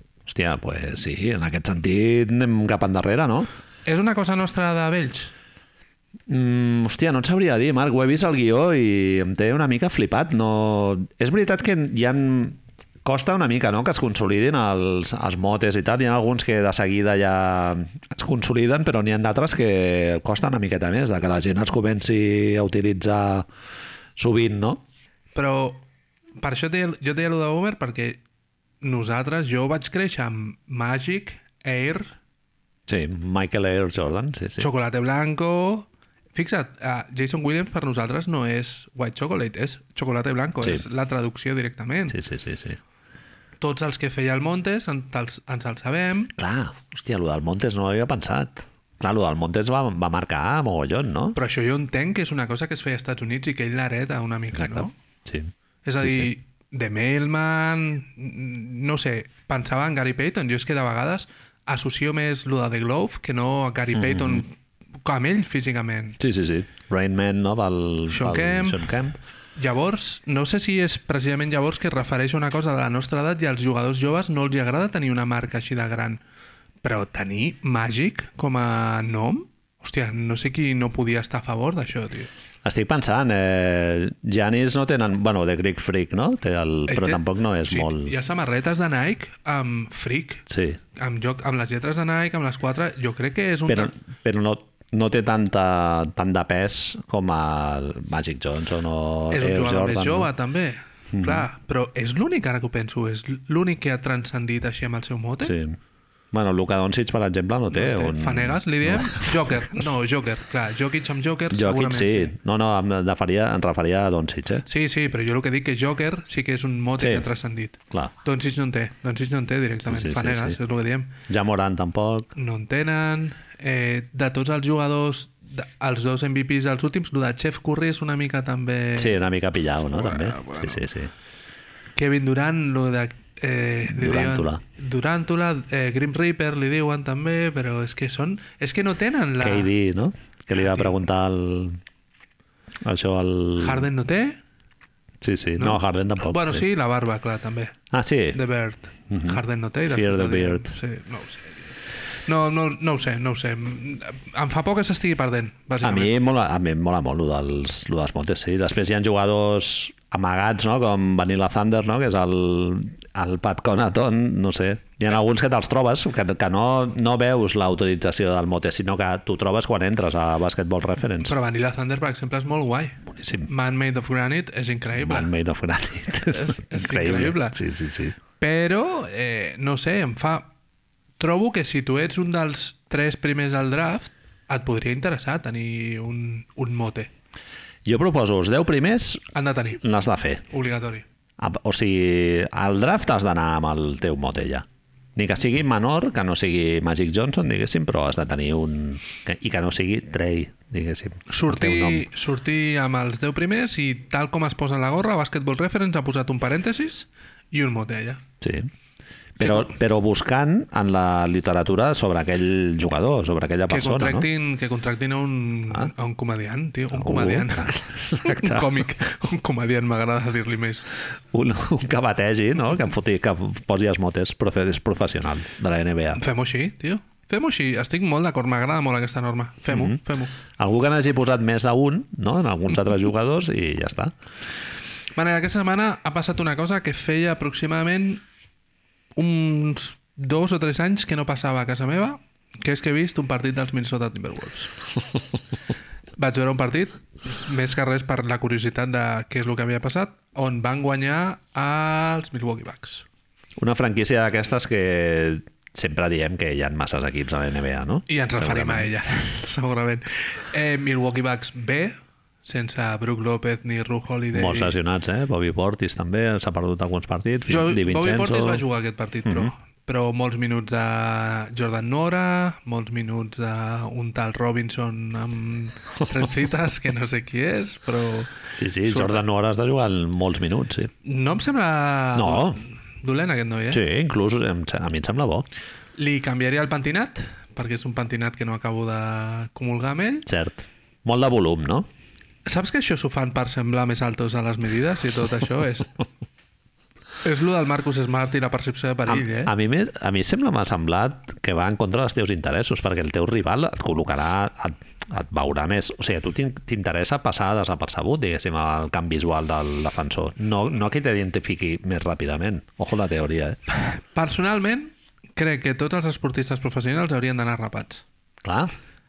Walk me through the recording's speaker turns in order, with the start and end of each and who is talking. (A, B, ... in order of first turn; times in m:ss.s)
0:00.3-0:03.5 A
0:03.9-0:05.3 B
0:06.3-0:23.5 A
0:24.2-0:24.8 A
0:25.4-0:25.8 B
0:26.4-0:28.2 B
0:28.8-0:32.2 B
0:32.9-0:34.7 A
0:34.6-0:42.2 B
0:42.1-0:42.8 A
0:43.6-0:46.3 B
0:46.4-0:51.4 A
0:51.4-0:54.9 B
0:54.6-0:56.3 A
0:55.8-1:06.2 B
1:03.9-1:04.4 A
1:06.2-1:09.2 A
1:08.1-1:08.9 B
1:09.6-1:16.2 B
1:16.8-1:22.3 B
1:22.6-1:28.1 A
1:26.9-1:33.9 B
1:30.5-1:30.8 A
1:33.7-1:40.3 A
1:39.3-1:45.6 B
1:41.1-1:41.5 A
1:45.4-1:45.8 A
1:46.3-1:49.8 A
1:47.7-1:52.3 B
1:51.5-1:54.6 A
1:54.7-2:01.1 B
1:57.0-1:57.3 A
1:59.9-2:00.6 A
2:01.3-2:02.3 A
2:02.4-2:09.2 B
2:09.0-2:11.1 A
2:09.9-2:10.9 B
2:12.0-2:19.7 B
2:13.9-2:14.6 A
2:19.4-2:21.8 A
2:20.6-2:21.0 B
2:22.8-2:23.9 A
2:23.6-2:24.4 B
2:25.2-2:26.6 A
2:25.6-2:27.8 B
2:27.9-2:28.4 A
2:28.3-2:31.7 B
2:29.1-2:30.8 A
2:32.3-2:36.2 B
2:35.8-2:51.3 A
2:51.2-2:55.3 B
2:53.1-2:53.5 A
2:55.0-2:58.2 A
2:56.2-2:57.6 B
2:58.4-3:00.5 B
3:01.2-3:07.1 B
3:07.8-3:09.3 A
3:09.3-3:09.8 B
3:09.8-3:10.4 A
3:10.5-3:11.0 B
3:11.4-3:22.1 A
3:21.3-3:28.2 B
3:28.4-3:28.7 A
3:29.4-3:34.3 A
3:33.7-3:40.9 B
3:37.0-3:38.8 A
3:41.3-3:46.2 A
3:46.1-3:50.3 B
3:49.7-3:50.0 A
3:50.6-3:54.1 A
3:55.2-3:58.2 B
3:59.2-4:04.7 B
4:06.2-4:13.0 B
4:13.6-4:18.9 A
4:18.1-4:24.7 B
4:24.3-4:28.6 A
4:27.5-4:39.2 B
4:38.5-4:40.9 A
4:41.0-4:43.8 B
4:42.2-4:42.6 A
4:43.7-4:45.5 A
4:46.0-4:50.3 B
4:50.3-4:51.9 A
4:52.5-4:56.0 B
4:57.2-4:59.5 B
4:59.1-5:13.6 A
5:13.8-5:18.0 B
5:18.4-5:18.7 A